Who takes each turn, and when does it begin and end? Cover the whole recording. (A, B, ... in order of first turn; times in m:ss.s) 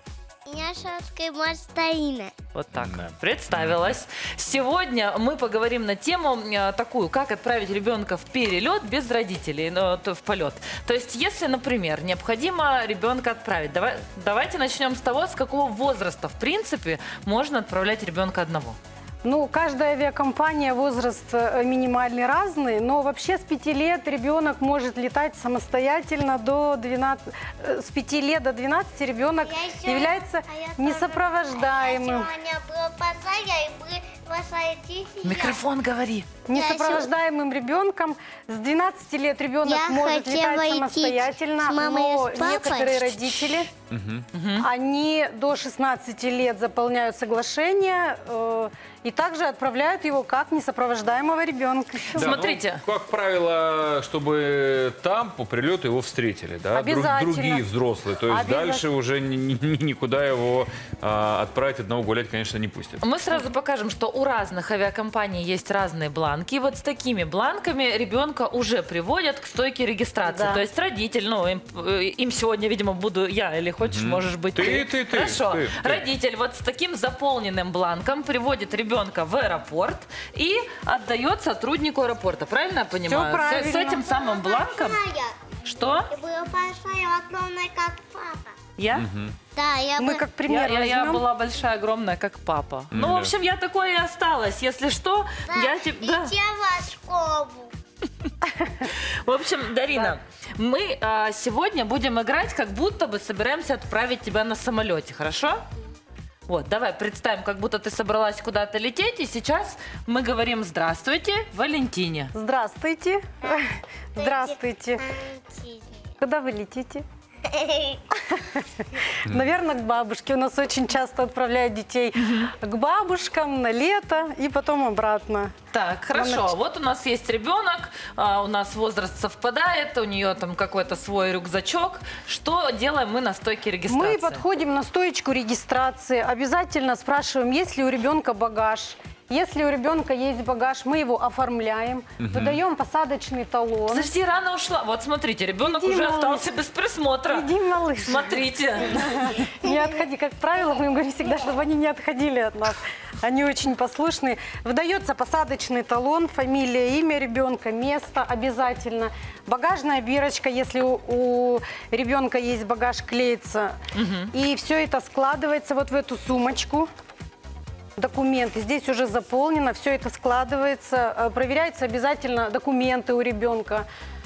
0:00.4-0:02.3 A
0:02.5-0:18.8 B
0:02.8-0:04.0 C
0:19.2-0:32.3 D
0:29.4-0:35.6 A
0:35.2-0:36.3 B
0:36.5-0:43.7 D
0:36.5-0:37.1 A
0:39.6-0:43.3 A
0:43.9-0:44.3 C
0:44.3-0:44.7 B
0:44.6-0:52.6 D
0:52.1-1:03.0 C
0:52.1-0:52.8 B
0:56.7-0:57.6 D
0:58.3-0:58.9 D
1:03.0-1:25.0 B
1:10.2-1:10.6 D
1:13.8-1:16.1 C
1:23.0-1:24.0 D
1:23.8-1:25.4 A
1:25.6-1:26.1 B
1:26.1-1:28.5 A
1:28.8-1:29.0 B
1:28.9-1:29.4 C
1:29.5-1:30.3 A
1:30.0-1:31.2 D
1:30.4-1:36.3 B
1:32.9-1:33.3 C
1:35.5-1:37.7 A
1:38.4-1:38.8 D
1:38.8-1:45.6 B
1:46.5-1:52.3 B
1:52.3-1:55.0 D
1:54.2-1:56.0 A
1:56.2-1:57.0 D
1:57.5-1:58.0 A
1:58.1-2:05.5 D
2:02.2-2:02.5 B
2:05.7-2:14.4 B
2:06.1-2:06.5 D
2:13.9-2:24.1 D
2:22.2-2:22.6 C
2:23.9-2:29.3 B
2:25.6-2:26.5 D
2:27.3-2:43.8 D
2:43.9-2:44.3 B
2:44.3-2:46.9 D
2:48.0-2:53.8 D